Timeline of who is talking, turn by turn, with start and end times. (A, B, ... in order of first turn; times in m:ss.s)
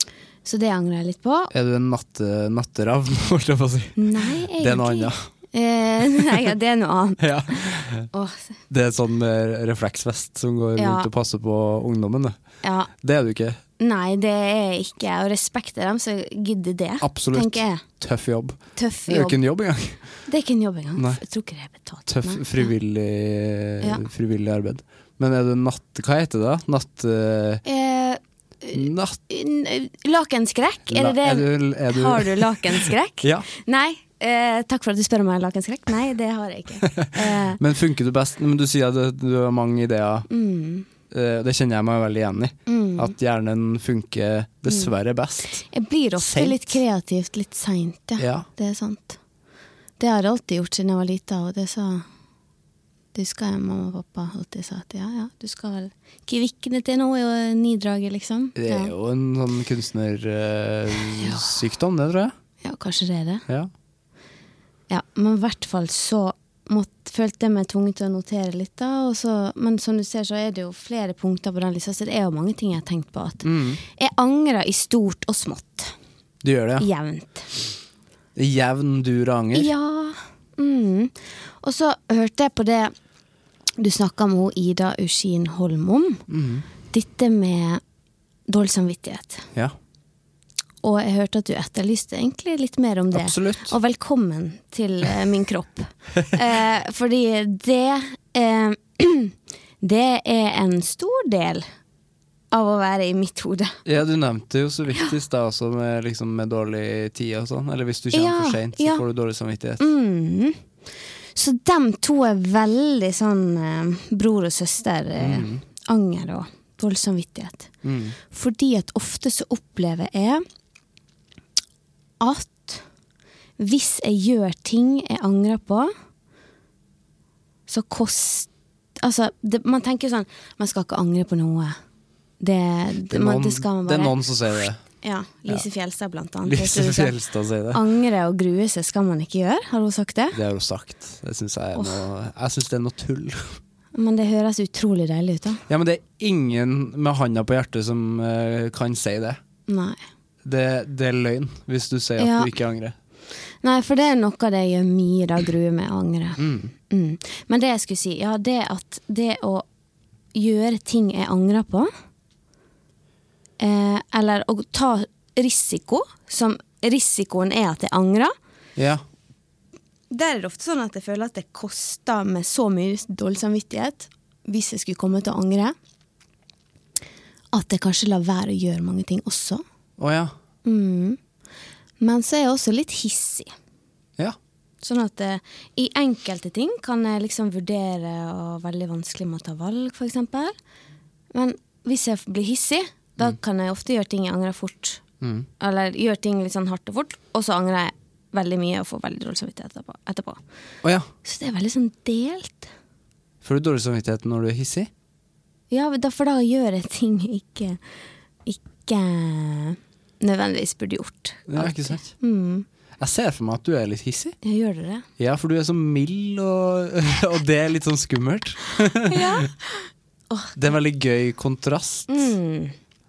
0:00.4-0:01.5 A
0:01.5-0:05.3 B
0:04.0-0:07.6 A
0:07.2-0:08.1 B
0:08.1-0:08.5 A
0:08.7-0:12.4 B
0:10.8-0:11.1 A
0:12.6-0:12.9 A
0:13.0-0:13.6 B
0:13.8-0:17.8 A
0:17.0-0:20.0 B
0:18.8-0:19.4 A
0:20.3-0:22.7 A
0:21.0-0:21.2 B
0:22.1-0:27.6 B
0:27.6-0:37.6 A
0:28.7-0:29.2 B
0:30.9-0:33.5 B
0:37.0-0:40.3 B
0:40.3-0:40.9 A
0:41.1-0:45.6 B
0:42.7-0:43.1 A
0:45.7-0:49.2 A
0:46.2-0:46.8 B
0:48.2-0:48.5 B
0:50.0-0:52.1 A
0:53.1-0:58.9 A
0:58.6-1:02.3 B
1:01.2-1:01.5 A
1:02.6-1:03.4 A
1:04.9-1:15.9 A
1:13.4-1:13.8 B
1:16.4-1:16.9 B
1:16.8-1:17.5 A
1:18.4-1:19.7 B
1:19.5-1:22.9 A
1:23.8-1:26.2 A
1:26.3-1:26.6 B
1:26.9-1:27.8 A
1:28.5-1:29.5 A
1:30.8-1:41.7 A
1:33.1-1:33.7 B
1:42.5-1:43.8 A
1:43.8-1:49.8 B
1:48.1-1:49.0 A
1:49.8-1:50.6 A
1:51.4-1:57.7 A
1:55.2-1:55.6 B
1:57.8-1:58.2 B
1:58.2-2:00.4 A
2:02.2-2:02.8 A
2:03.6-2:05.9 A
2:07.7-2:11.8 A
2:12.4-2:14.3 A
2:13.1-2:14.8 B
2:15.0-2:17.2 A
2:16.4-2:17.8 B
2:17.7-2:20.4 A
2:20.3-2:23.6 B
2:21.8-2:22.0 A
2:24.0-2:25.6 A
2:25.7-2:29.4 B
2:29.7-2:30.0 A
2:30.4-2:33.0 B
2:32.2-2:32.5 A
2:33.6-2:39.6 A
2:36.4-2:36.7 B
2:40.3-2:41.9 A
2:43.6-2:48.3 A
2:48.8-2:49.0 B
2:50.1-2:55.8 A
2:57.5-2:59.6 A
3:00.0-3:00.3 B
3:00.6-3:01.2 A
3:02.0-3:03.5 A
3:04.8-3:10.5 A
3:11.3-3:15.0 A
3:15.2-3:15.5 B
3:15.6-3:20.4 A
3:20.8-3:21.1 B
3:21.2-3:22.7 A
3:23.4-3:24.9 B
3:25.7-3:27.8 A
3:28.5-3:32.7 A
3:31.5-3:32.1 B
3:33.0-3:34.4 B
3:34.4-3:35.1 A
3:35.2-3:39.5 B
3:39.1-3:40.6 A
3:40.6-3:42.3 B
3:42.1-3:42.8 A